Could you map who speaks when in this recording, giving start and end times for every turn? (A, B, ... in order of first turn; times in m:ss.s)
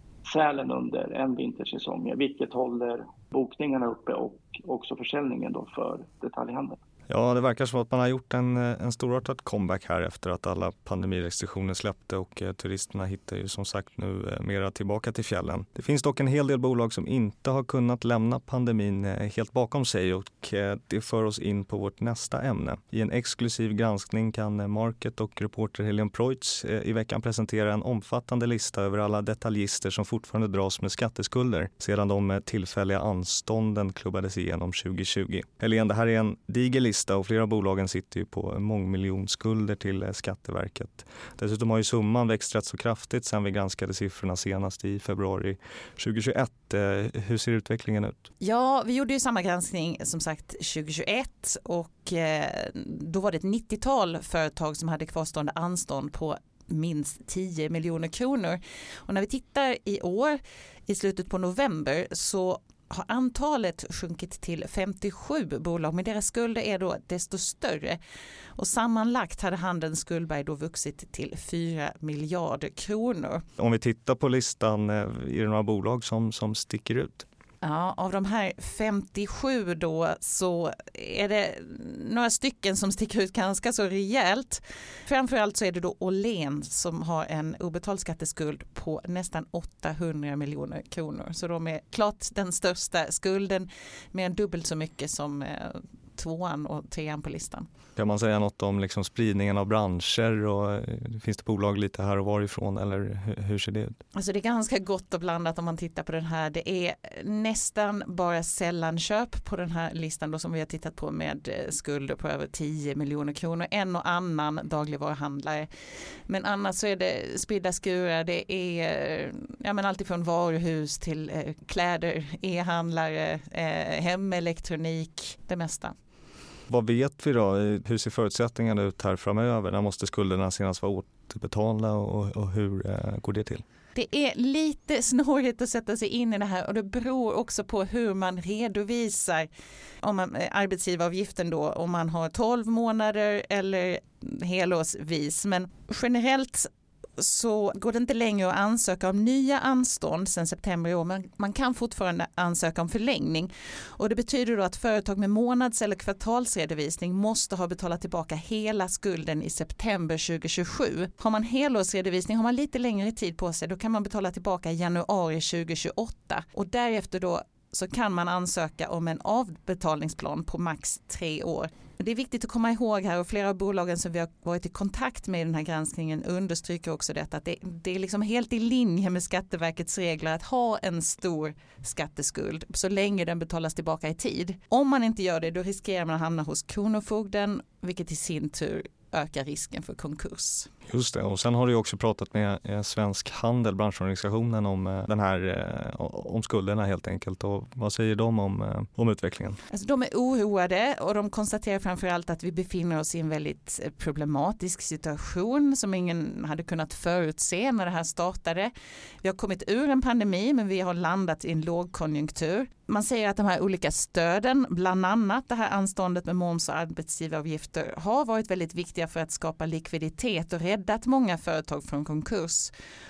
0:00.2-0:06.8 A
0:07.1-0:48.3 B
0:48.4-1:08.0 C
1:08.6-1:13.4 C
1:13.6-1:17.2 B
1:17.6-1:37.7 C
1:38.0-1:44.0 B
1:44.1-1:55.7 C
1:56.3-2:06.0 C
2:06.7-2:13.6 B
2:13.9-2:19.5 C
2:20.0-3:10.7 C
3:10.9-3:19.6 B
3:19.7-3:42.7 C